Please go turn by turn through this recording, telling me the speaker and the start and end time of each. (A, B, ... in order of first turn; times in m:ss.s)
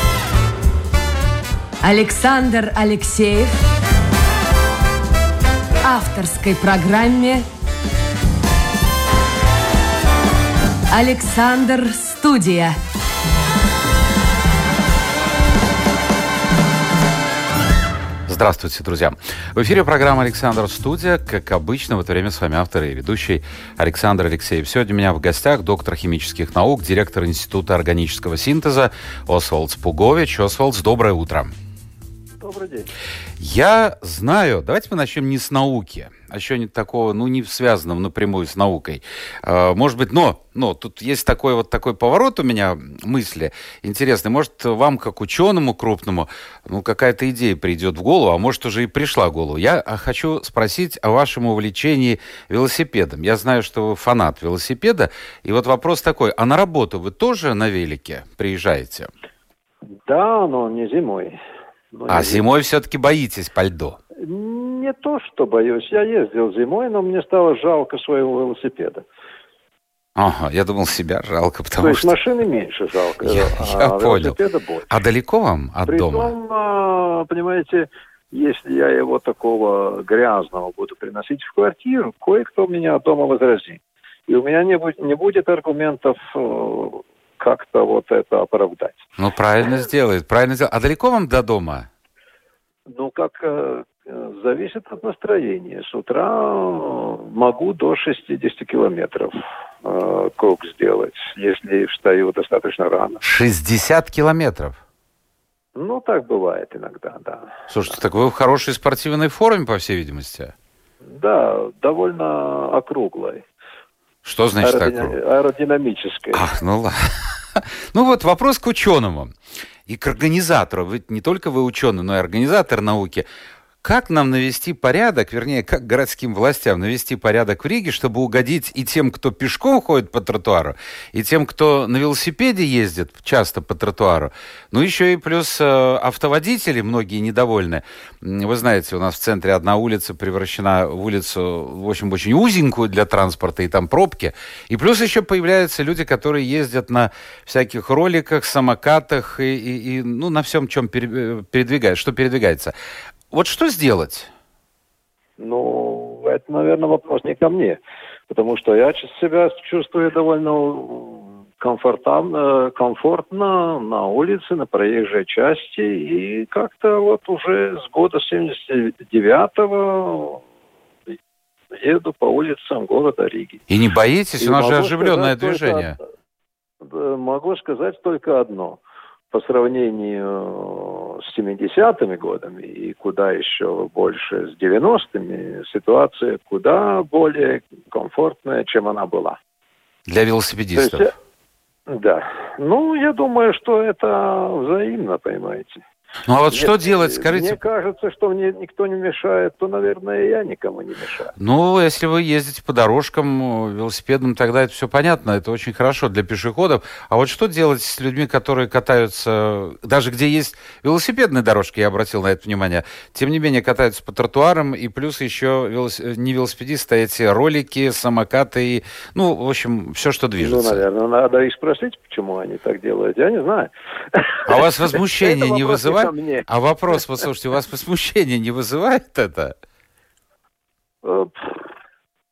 0:01.8-0:03.6 A
0:05.8-0:07.5 A
0:10.9-0:12.8 A
0:18.3-0:31.6 B
0:32.4-0:32.9 C
0:33.4-0:59.1 B
1:00.1-1:01.4 C
1:01.9-1:02.4 C
1:02.1-1:04.0 B
1:04.2-1:09.0 C
1:10.2-1:12.2 B
1:11.8-1:15.0 C
1:13.2-1:14.4 B
1:14.9-1:16.3 B
1:15.9-1:29.0 C
1:29.2-1:31.9 B
1:32.9-1:43.2 C
1:43.2-1:44.8 B
1:45.8-1:47.6 C
1:47.7-1:50.5 B
1:51.0-1:53.4 C
1:54.2-1:55.2 B
1:54.6-1:56.5 C
1:56.3-1:59.3 B
1:59.9-2:03.3 B
2:03.8-2:32.7 B
2:33.3-2:34.3 B
2:35.4-2:37.8 C
2:38.3-2:50.4 C
2:51.7-2:53.6 C
2:53.7-2:56.0 B
2:54.4-2:56.0 C
2:56.8-3:09.4 C
3:10.1-3:11.1 B
3:10.8-3:11.1 C
3:11.9-3:15.8 C
3:16.3-3:17.6 B
3:16.5-3:21.3 C
3:21.4-3:40.8 B
3:40.4-3:46.5 C
3:44.5-3:49.6 B
3:51.0-3:51.6 C